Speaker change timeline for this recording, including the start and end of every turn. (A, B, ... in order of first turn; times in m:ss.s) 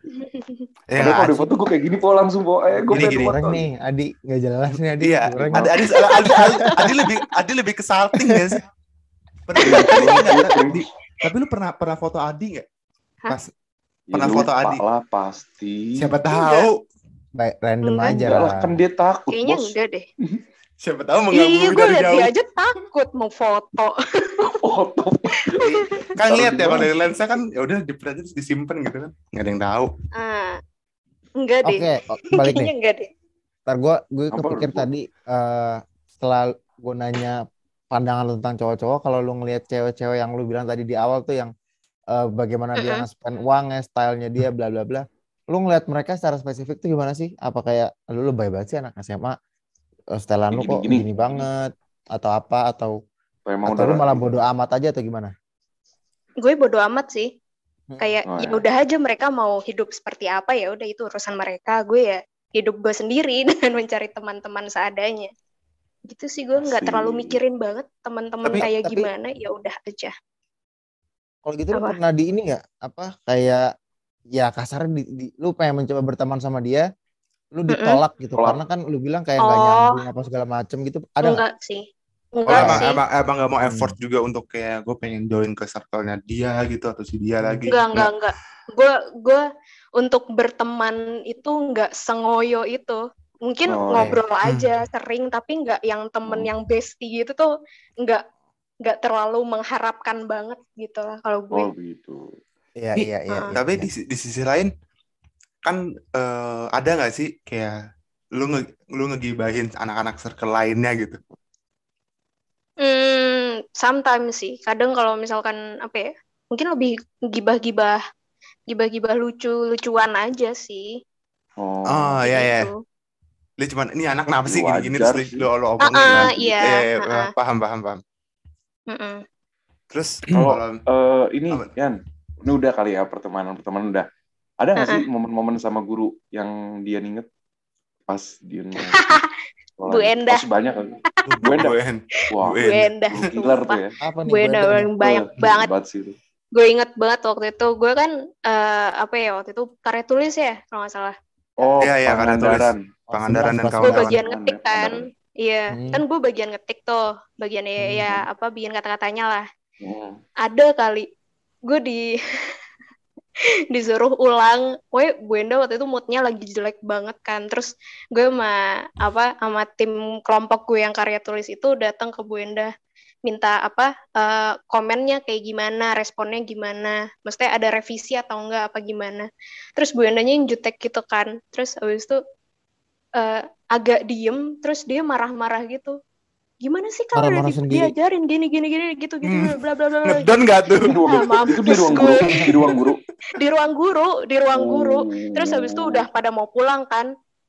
0:00.1-0:00.7 A
0:00.9-0:01.5 B
0:01.0-0:03.6 C
0:02.9-0:03.3 B
0:02.9-0:05.7 D
0:05.0-0:08.6 B
0:06.1-0:06.8 A
0:06.6-0:06.9 D
0:08.2-0:08.6 D
0:09.4-0:12.6 B
0:09.6-0:10.9 C
0:09.8-0:10.3 A
0:14.1-0:16.1 C
0:14.1-0:14.8 B
0:16.0-0:16.8 B
0:16.3-0:16.7 A
0:17.4-0:18.8 D
0:17.8-0:18.3 A
0:18.0-0:19.7 C
0:19.3-0:20.0 A
0:20.8-0:22.3 B
0:21.3-0:24.4 A
0:24.4-0:25.6 C
0:25.6-0:26.0 A
0:25.6-0:29.9 B
0:26.2-0:26.9 C
0:30.1-0:30.6 A
0:31.4-0:33.1 A
0:31.6-0:32.7 D
0:33.7-0:37.4 D
0:34.3-0:34.8 C
0:37.9-0:41.5 D
0:42.1-0:49.3 D
0:42.8-0:43.0 A
0:50.1-0:53.0 D
0:50.5-0:51.4 C
0:53.4-0:54.3 C
0:53.6-0:55.3 D
0:56.4-0:57.3 A
0:57.9-0:58.2 D
0:58.0-1:05.3 A
0:58.3-0:58.6 C
1:06.1-1:10.1 A
1:06.6-1:07.4 C
1:08.6-1:09.1 D
1:11.4-1:13.6 D
1:14.3-1:16.8 D
1:17.5-1:21.4 D
1:17.7-1:18.0 A
1:18.4-1:18.6 C
1:19.4-1:20.0 A
1:21.2-1:23.0 A
1:22.5-1:28.1 B
1:22.5-1:22.8 D
1:23.6-1:23.9 D
1:27.4-1:27.8 D
1:27.7-1:29.4 A
1:30.0-1:37.5 A
1:33.7-1:34.1 C
1:34.4-1:34.8 B
1:38.8-1:41.7 A
1:41.5-1:42.2 C
1:42.8-1:43.9 D
1:43.0-1:44.7 B
1:45.6-1:47.7 B
1:48.4-1:51.2 B
1:52.8-1:58.0 A
1:58.7-2:00.9 A
2:01.6-2:02.2 C
2:01.9-2:02.7 B
2:02.2-2:02.8 A
2:03.6-2:08.0 B
2:04.4-2:05.4 C
2:05.8-2:07.3 A
2:06.0-2:06.7 C
2:08.9-2:09.2 A
2:09.9-2:10.8 B
2:10.3-2:14.0 C
2:14.6-2:17.2 C
2:14.8-2:15.0 A
2:18.1-2:19.2 C
2:18.9-2:19.3 A
2:19.8-2:21.8 C
2:19.9-2:20.4 A
2:21.2-2:22.9 B
2:22.3-2:23.9 C
2:22.6-2:25.7 A
2:24.0-2:24.9 D
2:25.0-2:26.1 C
2:26.5-2:31.2 A
2:31.6-2:32.8 C
2:31.8-2:34.2 B
2:33.3-2:34.1 D
2:33.8-2:39.4 A
2:34.1-2:35.1 C
2:35.7-2:36.0 D
2:37.8-2:38.2 D
2:39.8-2:40.2 C
2:40.4-2:41.1 A
2:41.7-2:42.5 A
2:43.7-2:52.7 A
2:53.2-3:02.2 A
3:03.2-3:06.0 A
3:06.6-3:12.7 A
3:07.1-3:07.9 D
3:09.2-3:12.8 B
3:10.8-3:13.0 C
3:13.3-3:17.1 A
3:14.5-3:16.0 C